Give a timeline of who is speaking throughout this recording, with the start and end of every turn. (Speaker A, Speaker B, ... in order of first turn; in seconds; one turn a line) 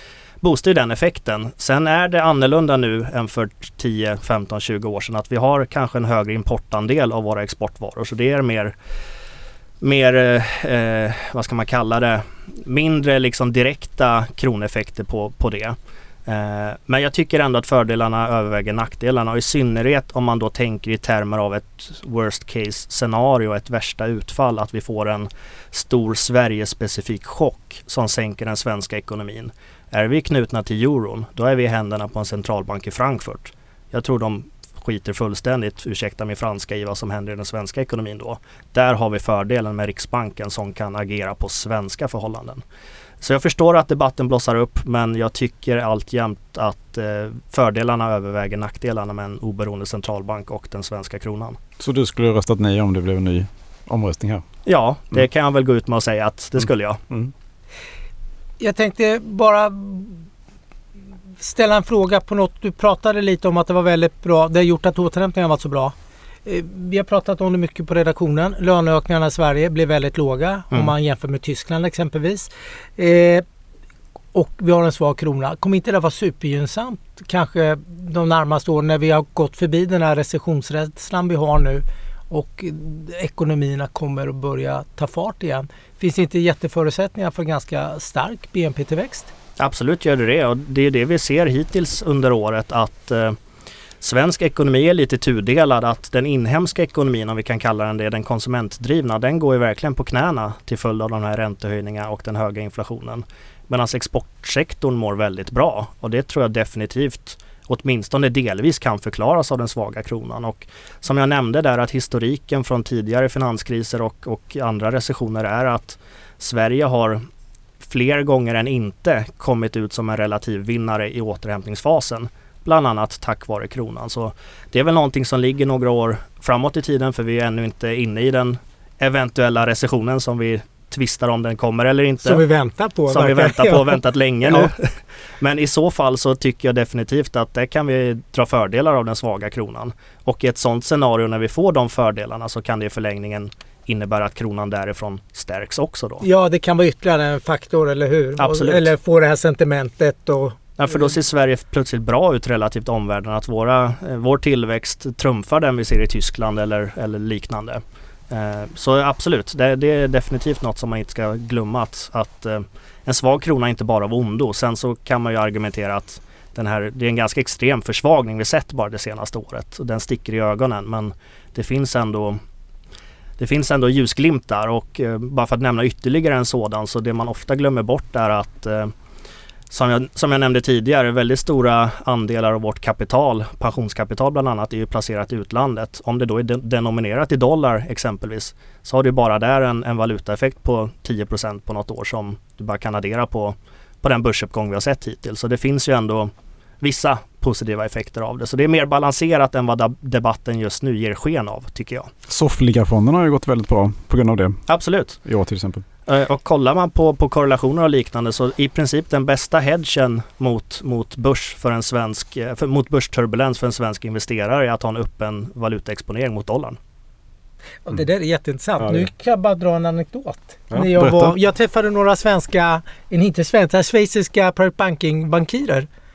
Speaker A: 0.4-8.8
Speaker A: 9.8-42.6
Speaker A: 43.2-51.6
Speaker B: 51.8-54.4
Speaker A: 54.7-57.0
Speaker C: 58.6-60.2
Speaker C: 61.4-73.5
Speaker C: 74.3-89.3
Speaker A: 89.6-93.4
Speaker A: 94.0-117.2
Speaker A: 117.8-132.4
Speaker C: 132.2-134.7
Speaker A: 133.1-146.3
Speaker C: 146.2-150.6
Speaker A: 148.4-148.9
Speaker A: 150.8-172.4
Speaker A: 173.4-178.9
Speaker A: 179.7-202.1
Speaker B: 202.3-204.6
Speaker A: 204.7-205.2
Speaker B: 205.2-205.8
Speaker A: 206.1-216.8
Speaker C: 217.8-225.9
Speaker B: 218.8-219.1
Speaker B: 220.7-221.3